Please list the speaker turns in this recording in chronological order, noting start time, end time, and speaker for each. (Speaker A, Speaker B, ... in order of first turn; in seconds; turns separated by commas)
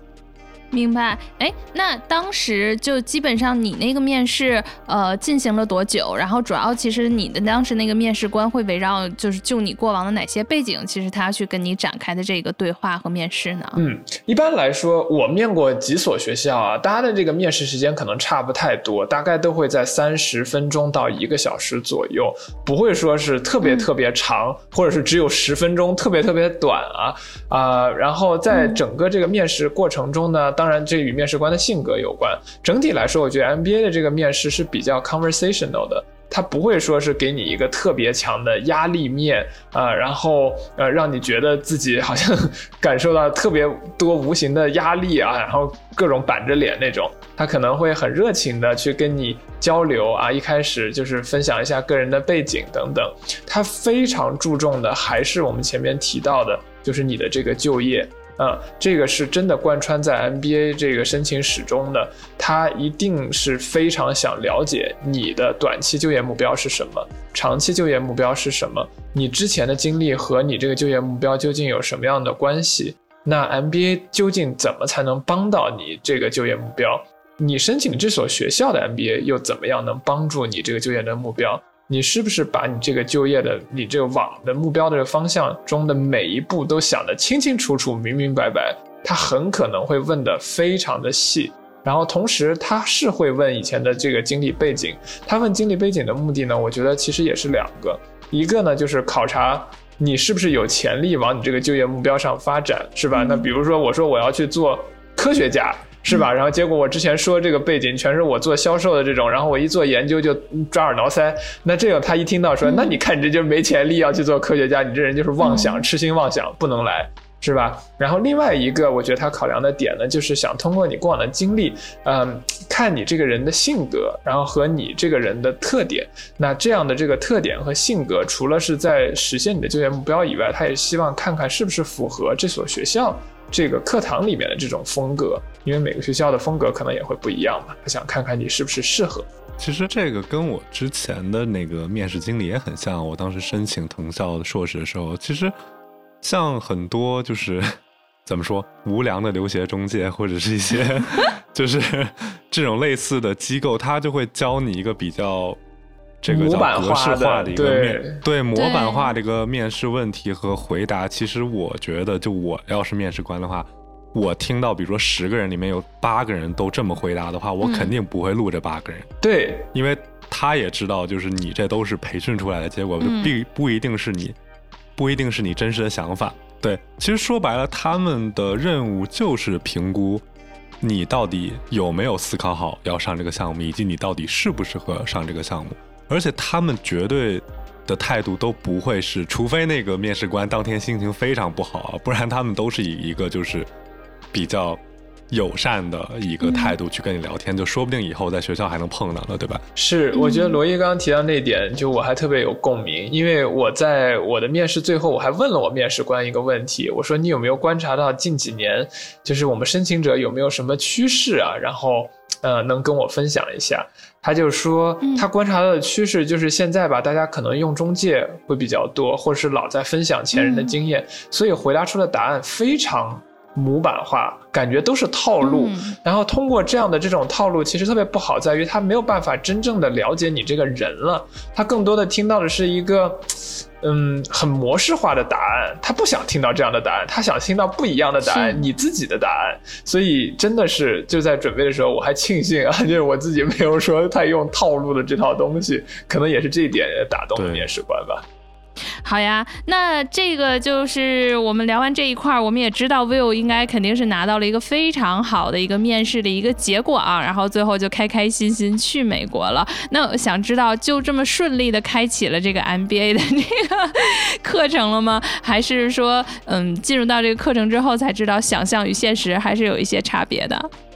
Speaker A: 0.7-13.8, Speaker B: 13.7-139.3, Speaker A: 23.6-23.9, Speaker A: 28.5-28.8, Speaker A: 103.1-103.5, Speaker A: 112.6-113.0, Speaker A: 115.4-115.8, Speaker C: 139.6-145.5, Speaker C: 146.2-147.7, Speaker C: 148.2-155.6, Speaker C: 156.2-169.1, Speaker B: 156.3-158.2, Speaker A: 158.5-159.1, Speaker A: 167.6-167.9, Speaker B: 169.2-169.7, Speaker C: 169.7-174.3, Speaker A: 173.0-173.3, Speaker C: 174.9-180.2, Speaker C: 180.8-193.7, Speaker C: 194.3-199.6, Speaker A: 196.4-196.7, Speaker B: 199.8-248.2, Speaker A: 200.1-200.6, Speaker A: 220.3-220.8, Speaker A: 225.4-225.9, Speaker A: 238.2-238.7, Speaker C: 247.3-247.7, Speaker A: 249.0-270.7